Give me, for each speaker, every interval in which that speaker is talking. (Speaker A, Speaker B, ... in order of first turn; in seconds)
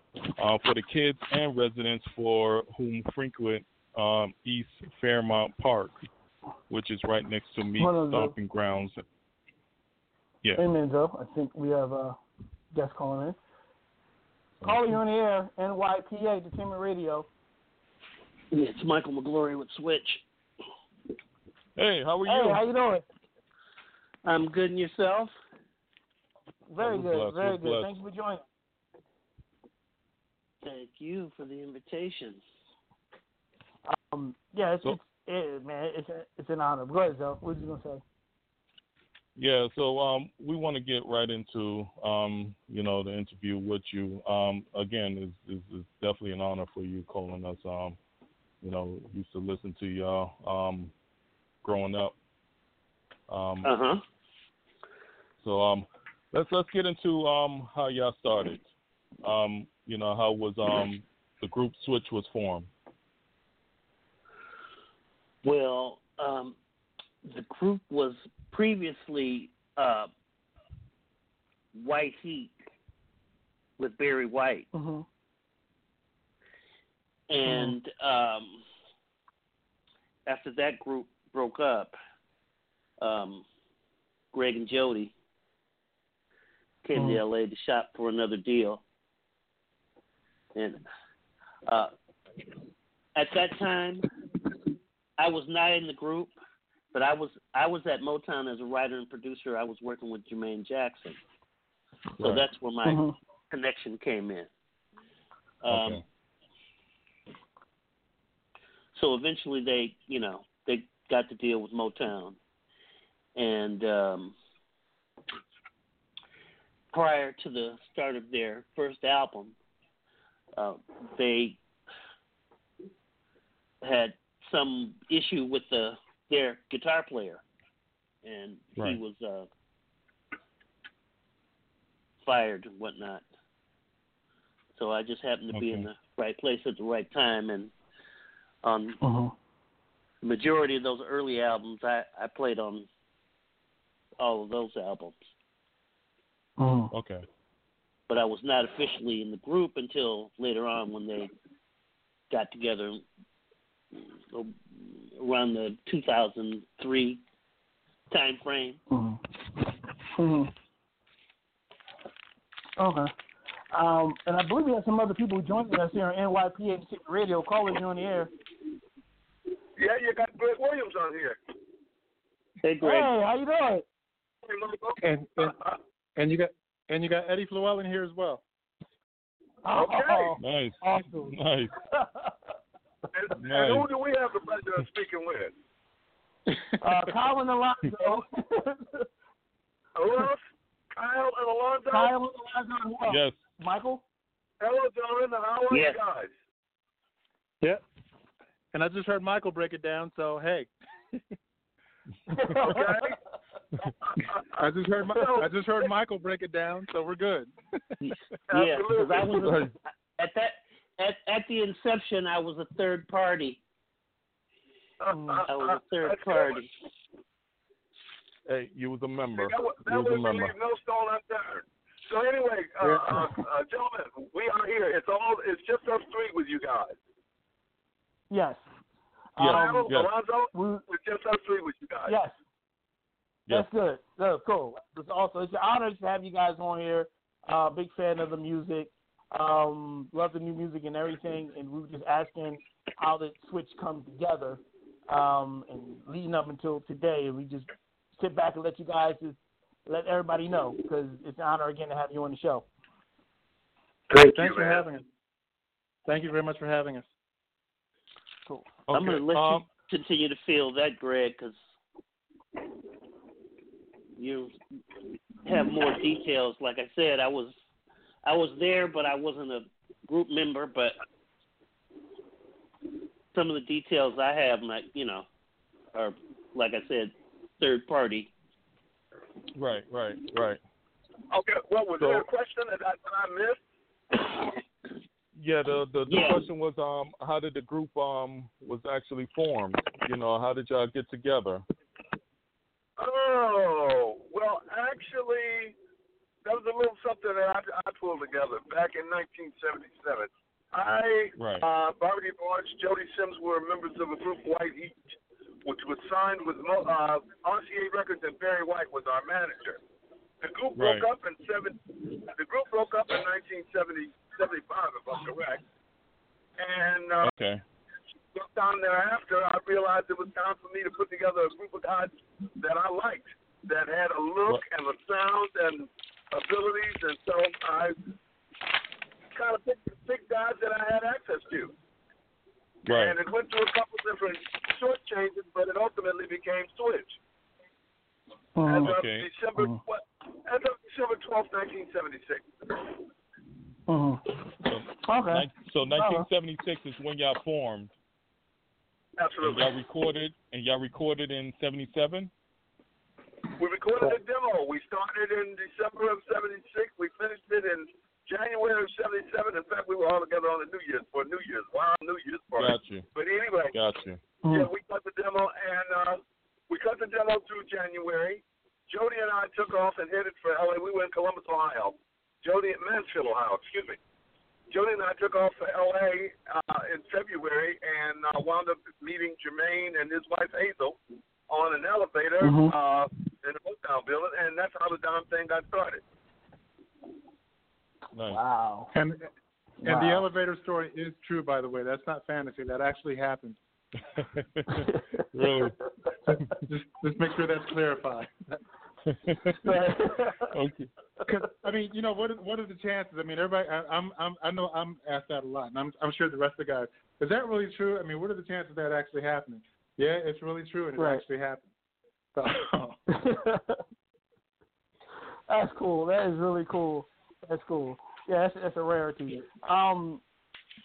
Speaker A: 0.4-6.0, 6.7-9.0, 14.6-15.0, 21.8-22.6, 26.8-27.9, 39.4-48.0, 48.6-50.9, 51.6-52.1, 53.3-53.7, 55.4-58.7, 59.2-62.7, 102.2-102.4, 105.7-106.0, 135.5-135.8, 146.9-147.2, 180.4-181.7, 183.4-183.9, 193.1-193.4, 209.4-209.7, 218.4-220.5, 229.4-230.1, 258.9-259.6, 279.5-280.6, 282.0-282.2, 285.3-291.6, 301.4-301.6, 310.8-311.1, 317.2-317.6, 332.9-333.2, 338.7-339.3, 344.6-347.9, 349.4-352.3, 362.6-363.1, 363.7-364.2, 388.1-388.4, 394.2-395.7, 399.1-399.5, 400.5-400.9
Speaker B: 7.8-8.3, 10.6-12.2, 12.7-13.4, 14.6-17.3, 22.2-23.0, 26.7-28.4, 33.9-38.0, 74.7-75.0, 77.4-77.8, 87.0-87.2, 102.8-103.1, 139.0-139.3, 146.6-146.9, 158.9-159.2, 160.2-160.5, 162.8-163.1, 163.7-168.3, 172.8-173.8, 179.6-181.3, 186.8-188.9, 191.9-194.0, 202.3-202.9, 215.1-215.4, 228.3-228.7, 229.3-229.9, 230.5-230.8, 232.1-232.3, 233.5-252.7, 338.6-338.9, 339.6-339.8, 343.9-344.2, 345.1-346.3, 364.4-364.7, 382.4-382.7, 388.3-388.9, 389.8-390.2, 394.7-395.0, 399.6-400.5, 410.9-411.2, 413.1-413.8, 415.5-420.2
Speaker C: 18.5-20.2, 24.2-25.3, 30.6-32.4, 53.6-54.0, 65.4-66.6, 67.2-70.1, 71.7-72.6, 73.8-74.7, 77.3-78.6, 80.2-81.9, 83.0-83.5, 84.3-85.1, 86.8-88.8, 90.5-90.8, 93.2-94.0, 95.2-96.3, 96.9-101.2, 102.2-104.5, 105.6-106.0, 108.9-112.4, 113.3-114.3, 116.9-119.5, 120.5-121.6, 123.8-127.4, 128.2-129.5, 132.2-133.2, 134.8-137.7, 138.6-139.0, 140.2-142.9, 144.2-145.2, 148.1-151.3, 152.3-153.0, 153.9-157.2, 158.1-158.8, 172.6-173.1, 195.7-196.0, 208.0-213.6, 215.5-216.7, 258.9-261.6, 264.2-264.5, 265.4-267.5, 268.2-271.0, 273.3-275.3, 275.9-278.3, 286.1-286.5
Speaker D: 169.8-171.4, 174.4-175.8, 179.7-180.4, 183.1-185.5, 189.9-190.4, 190.9-192.1, 194.6-196.3, 202.6-203.2, 205.1-205.9, 208.5-209.6, 215.0-216.7, 219.3-226.9, 229.4-232.2, 254.1-254.8, 281.3-283.6, 293.0-295.7, 296.4-309.8, 310.4-315.6, 316.6-317.3, 318.3-327.9, 329.3-331.7, 332.9-337.2, 338.6-342.4, 349.2-349.8, 353.6-363.7, 364.5-374.0, 374.7-386.0
Speaker E: 175.0-175.6, 176.2-178.4, 198.7-200.7, 204.6-207.5, 222.8-223.2, 254.2-255.0, 256.1-257.0, 388.9-389.3, 389.8-393.6, 396.6-398.6, 401.3-411.7, 412.3-412.9